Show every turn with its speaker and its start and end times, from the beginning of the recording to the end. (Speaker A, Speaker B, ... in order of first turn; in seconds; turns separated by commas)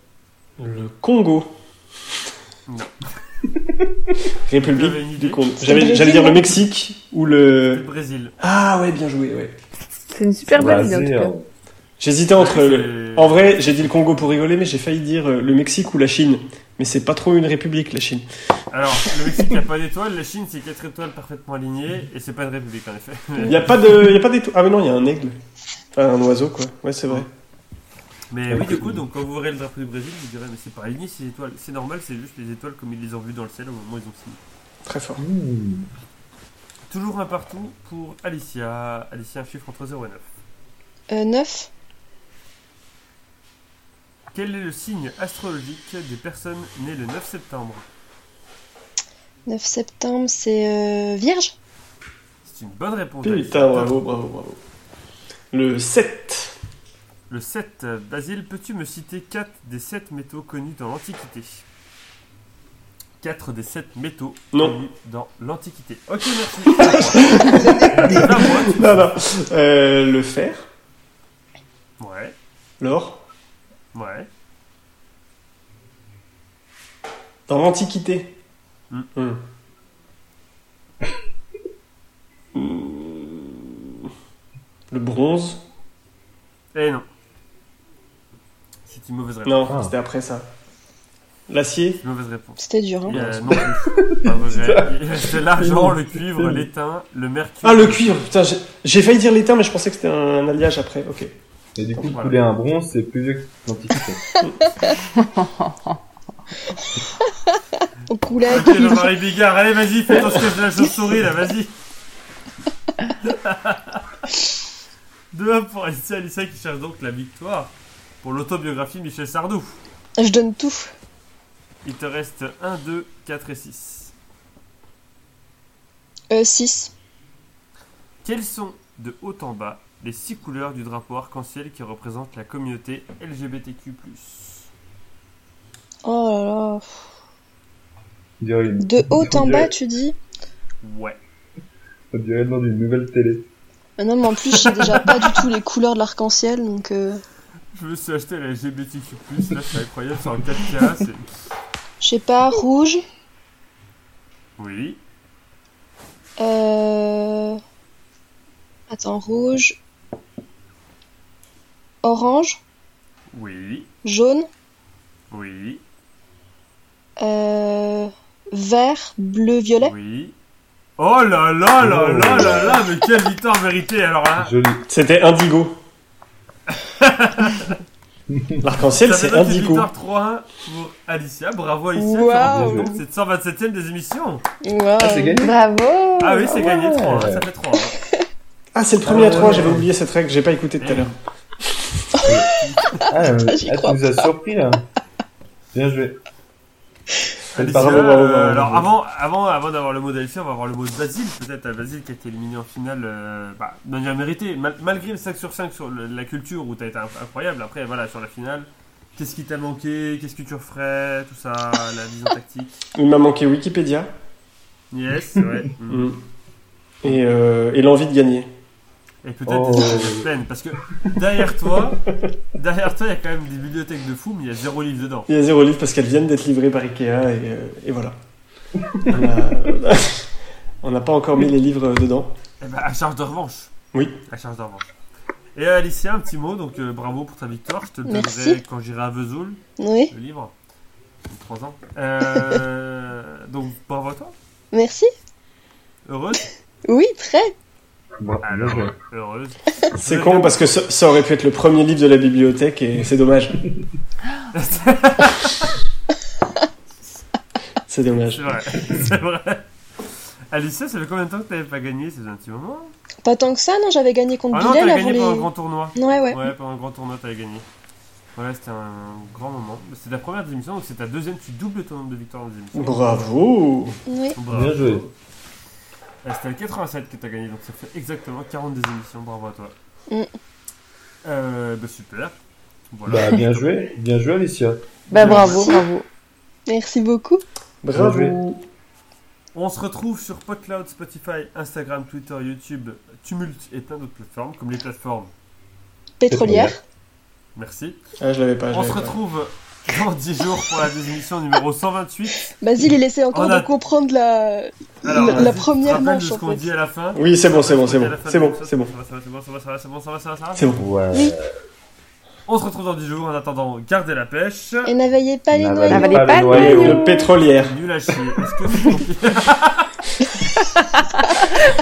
Speaker A: 0.6-1.5, Speaker B: 2.7-3.0, Speaker A: 4.4-7.8, Speaker B: 4.6-5.4, Speaker C: 5.6-6.5, Speaker B: 7.7-8.3, Speaker A: 8.4-9.6, Speaker D: 10.1-11.3, Speaker E: 10.5-11.5, Speaker A: 12.0-18.2, Speaker B: 12.3-13.6, Speaker B: 18.7-24.0, Speaker A: 23.4-25.4, Speaker A: 25.9-27.3, Speaker B: 28.3-34.4, Speaker E: 28.5-29.0, Speaker A: 34.9-35.2, Speaker E: 35.2-35.9, Speaker B: 36.9-40.3, Speaker C: 41.1-41.7, Speaker B: 44.3-47.9, Speaker C: 49.5-51.5, Speaker B: 52.4-53.9, Speaker A: 53.2-54.6, Speaker A: 55.5-56.5, Speaker B: 57.3-61.6, Speaker B: 63.2-69.0, Speaker A: 64.5-64.8, Speaker A: 66.6-70.7, Speaker B: 72.0-72.3, Speaker A: 72.8-73.2, Speaker B: 73.9-74.3, Speaker A: 77.5-78.3, Speaker A: 79.1-79.4, Speaker A: 82.5-84.1, Speaker A: 84.9-85.6, Speaker B: 86.7-87.1, Speaker B: 88.8-89.7, Speaker A: 89.4-90.5, Speaker E: 89.7-89.9, Speaker A: 91.5-92.0, Speaker B: 92.0-98.2, Speaker C: 92.6-93.2, Speaker A: 93.1-93.6, Speaker E: 93.6-96.7, Speaker A: 97.6-101.3, Speaker E: 101.8-104.3, Speaker B: 102.1-102.4, Speaker C: 107.5-109.1, Speaker B: 108.5-111.7, Speaker B: 113.2-114.3, Speaker B: 115.3-119.8, Speaker C: 120.2-120.9, Speaker B: 121.8-124.1, Speaker C: 126.3-126.9, Speaker B: 128.2-134.7, Speaker C: 136.0-136.9, Speaker E: 138.4-139.7, Speaker C: 138.8-140.1, Speaker B: 140.8-141.2, Speaker E: 142.1-143.5, Speaker C: 144.0-147.2, Speaker B: 144.5-145.4, Speaker B: 147.7-151.2, Speaker C: 152.0-153.0, Speaker B: 154.6-155.0, Speaker C: 156.4-157.6, Speaker C: 158.9-159.8, Speaker C: 162.0-162.6, Speaker B: 163.3-163.9, Speaker C: 164.0-164.5, Speaker B: 165.3-165.8, Speaker C: 167.2-169.9, Speaker B: 169.8-170.3, Speaker B: 171.0-174.6, Speaker E: 171.8-172.8, Speaker E: 174.4-174.8, Speaker A: 174.9-175.8, Speaker B: 176.7-177.8, Speaker E: 178.3-178.7, Speaker A: 178.6-179.9, Speaker B: 179.0-184.4, Speaker C: 181.9-182.9, Speaker E: 182.4-182.9, Speaker C: 184.6-185.5, Speaker E: 185.0-185.5, Speaker D: 185.4-186.6, Speaker B: 186.2-188.0, Speaker E: 186.5-187.5, Speaker A: 188.8-191.1, Speaker B: 189.0-189.9, Speaker E: 189.1-189.8, Speaker B: 190.8-191.2, Speaker E: 192.2-194.8, Speaker B: 192.6-192.9, Speaker C: 192.9-194.3, Speaker E: 195.7-196.2, Speaker B: 197.5-212.8, Speaker E: 197.5-198.4, Speaker A: 197.6-198.9, Speaker A: 212.9-214.1, Speaker B: 214.9-216.1, Speaker A: 215.9-216.2, Speaker A: 217.0-218.5, Speaker B: 219.2-225.3, Speaker E: 219.5-220.3, Speaker A: 225.3-228.1, Speaker A: 229.1-230.3, Speaker A: 230.8-232.3, Speaker B: 232.6-233.7, Speaker A: 233.9-234.2, Speaker B: 234.3-234.9, Speaker B: 235.5-239.6, Speaker C: 238.1-238.6, Speaker C: 239.8-240.1, Speaker B: 240.1-240.5, Speaker B: 241.2-244.3, Speaker C: 244.7-245.1, Speaker B: 246.0-246.5, Speaker C: 246.9-247.5, Speaker E: 248.2-248.9, Speaker B: 248.4-250.6, Speaker A: 249.9-253.7, Speaker B: 254.5-255.7, Speaker A: 257.9-258.5, Speaker B: 258.3-259.6, Speaker B: 260.5-262.9, Speaker C: 263.2-266.4, Speaker B: 264.5-267.6, Speaker B: 268.4-273.2, Speaker A: 272.7-274.0, Speaker C: 274.1-274.4, Speaker B: 274.4-275.1, Speaker E: 274.5-275.1, Speaker B: 276.2-279.7, Speaker B: 281.2-282.4, Speaker B: 282.9-283.6, Speaker E: 283.1-285.1, Speaker D: 285.1-286.0, Speaker B: 285.1-285.7, Speaker C: 285.2-285.9, Speaker C: 286.7-287.4, Speaker A: 287.8-288.6, Speaker E: 287.9-288.4, Speaker B: 289.5-295.3, Speaker C: 296.2-296.8, Speaker E: 296.3-296.8, Speaker B: 297.6-298.0, Speaker A: 298.2-299.1, Speaker B: 298.7-302.5, Speaker C: 302.6-306.7, Speaker B: 303.3-303.7, Speaker B: 305.0-310.7, Speaker A: 305.1-305.5, Speaker A: 307.1-308.9, Speaker A: 310.6-310.8, Speaker E: 310.8-311.5, Speaker B: 312.5-314.9, Speaker C: 314.8-316.6, Speaker E: 315.5-317.1, Speaker D: 315.9-317.3, Speaker A: 316.4-317.8, Speaker B: 317.6-320.0